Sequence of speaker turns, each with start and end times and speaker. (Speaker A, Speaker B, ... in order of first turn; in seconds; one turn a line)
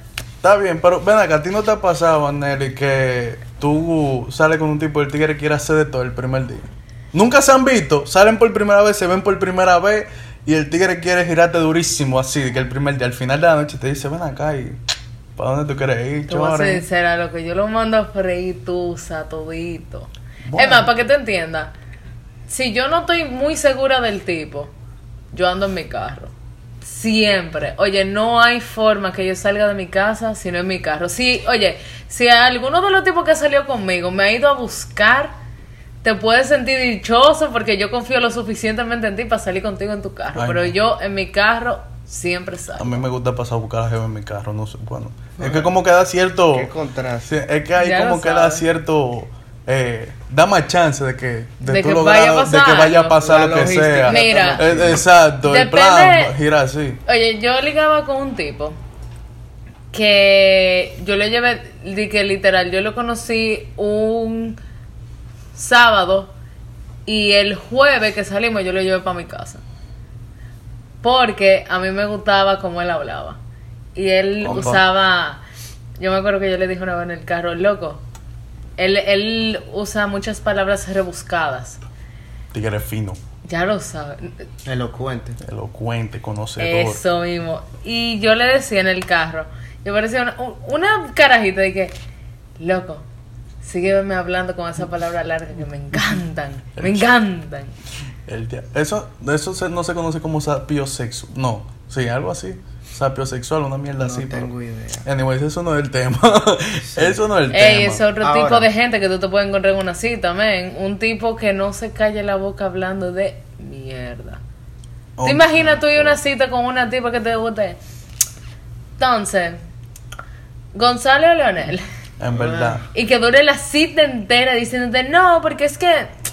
Speaker A: 0.4-14.8
Speaker A: 15.4-16.8
Speaker B: 16.3-21.7
Speaker A: 20.5-20.9
Speaker B: 22.5-24.7
Speaker B: 25.3-35.4
Speaker B: 36.0-43.1
Speaker A: 40.4-40.8
Speaker A: 42.8-46.7
Speaker C: 45.4-45.7
Speaker C: 46.5-47.3
Speaker A: 47.3-57.0
Speaker B: 47.8-48.6
Speaker B: 51.6-53.2
Speaker C: 53.2-55.0
Speaker B: 54.1-54.7
Speaker B: 55.5-56.3
Speaker B: 57.1-58.8
Speaker B: 59.9-64.6
Speaker B: 65.5-66.3
Speaker B: 67.1-69.6
Speaker B: 71.0-73.4
Speaker B: 74.0-75.4
Speaker A: 74.4-74.8
Speaker B: 76.0-78.0
Speaker B: 78.8-81.8
Speaker A: 82.5-83.2
Speaker B: 83.5-84.5
Speaker C: 84.6-85.4
Speaker A: 85.4-87.0
Speaker B: 86.6-92.0
Speaker B: 92.6-93.0
Speaker B: 93.6-97.7
Speaker A: 96.8-97.1
Speaker A: 98.3-104.5
Speaker C: 104.0-105.1
Speaker A: 105.0-108.0
Speaker C: 106.9-107.2
Speaker B: 107.5-114.4
Speaker C: 108.2-108.7
Speaker A: 115.2-115.7
Speaker B: 115.2-117.8
Speaker B: 119.0-119.6
Speaker B: 120.8-121.8
Speaker A: 122.2-122.8
Speaker C: 122.3-122.8
Speaker B: 122.9-126.1